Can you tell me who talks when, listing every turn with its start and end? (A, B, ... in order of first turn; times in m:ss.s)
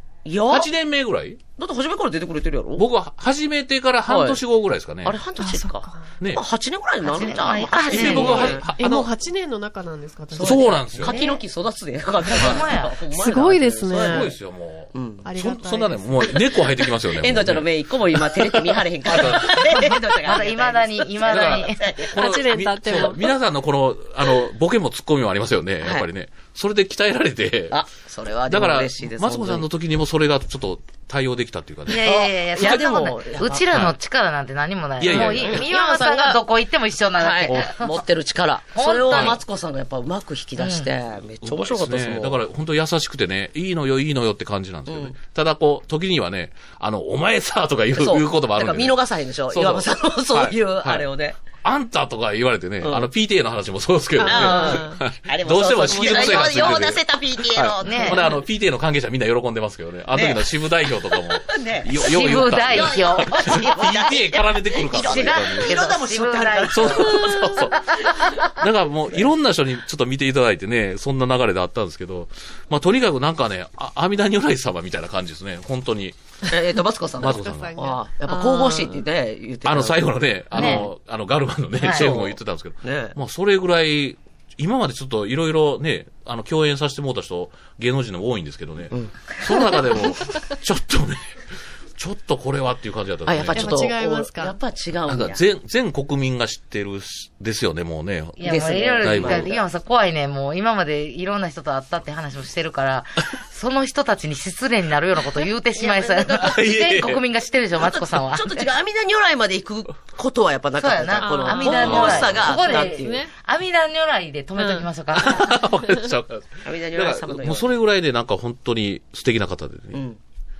0:00.2-0:00.7 A
0:00.5-0:01.4 B
0:01.6-0:02.8 A
0:02.8-0:05.2 B
0:04.0-0:04.4 A
0:05.0-0:08.7 A
0:05.4-0:06.1 C
0:07.0-0:08.6 D
0:07.9-0:09.1 B
0:08.1-0:11.2 C
0:10.3-0:14.3 A
0:10.4-0:11.2 B
0:11.1-0:11.3 D
0:12.3-0:12.9 D
0:12.4-0:12.6 B
0:13.1-0:14.3 C
0:14.0-0:19.9 B
0:14.9-0:15.3 A
0:15.2-0:16.5 C
0:16.5-0:22.2 A
0:19.7-0:21.9 D
0:21.3-0:27.8 B
0:22.1-0:23.2 C
0:25.8-0:26.1 A
0:27.7-0:29.6 A
0:28.5-0:32.0 B
0:31.9-0:38.0 D
0:31.9-0:33.7 A
0:33.7-0:34.0 B
0:35.0-0:35.7 B
0:35.1-0:36.4 A
0:37.2-0:42.4 A
0:38.7-0:39.4 D
0:39.1-0:39.4 B
0:40.6-0:40.9 D
0:41.4-0:49.0 B
0:44.9-0:45.2 A
0:48.0-0:51.4 A
0:49.5-0:51.1 B
0:51.6-1:05.8 B
0:52.8-0:53.1 A
0:54.2-0:55.0 C
0:54.2-0:58.4 A
0:55.9-0:56.4 C
0:57.8-0:58.3 D
1:00.1-1:00.5 A
1:01.2-1:01.9 A
1:02.0-1:04.2 D
1:02.7-1:08.1 A
1:04.9-1:07.4 D
1:06.7-1:16.2 B
1:16.5-1:20.9 A
1:17.2-1:17.7 B
1:17.2-1:19.0 C
1:19.6-1:31.4 B
1:20.5-1:20.9 D
1:21.8-1:22.1 D
1:21.8-1:23.2 A
1:28.9-1:29.7 A
1:32.0-1:33.8 B
1:33.2-1:35.4 A
1:33.5-1:34.6 C
1:35.1-1:39.5 B
1:38.4-1:48.7 D
1:38.4-1:39.6 A
1:45.7-1:46.6 A
1:46.4-1:47.2 B
1:47.8-1:53.2 A
1:50.8-1:55.6 D
1:51.2-1:53.3 C
1:51.8-1:52.5 B
1:54.6-1:54.8 C
1:55.1-2:00.0 B
1:56.6-1:57.7 A
1:59.9-2:00.2 A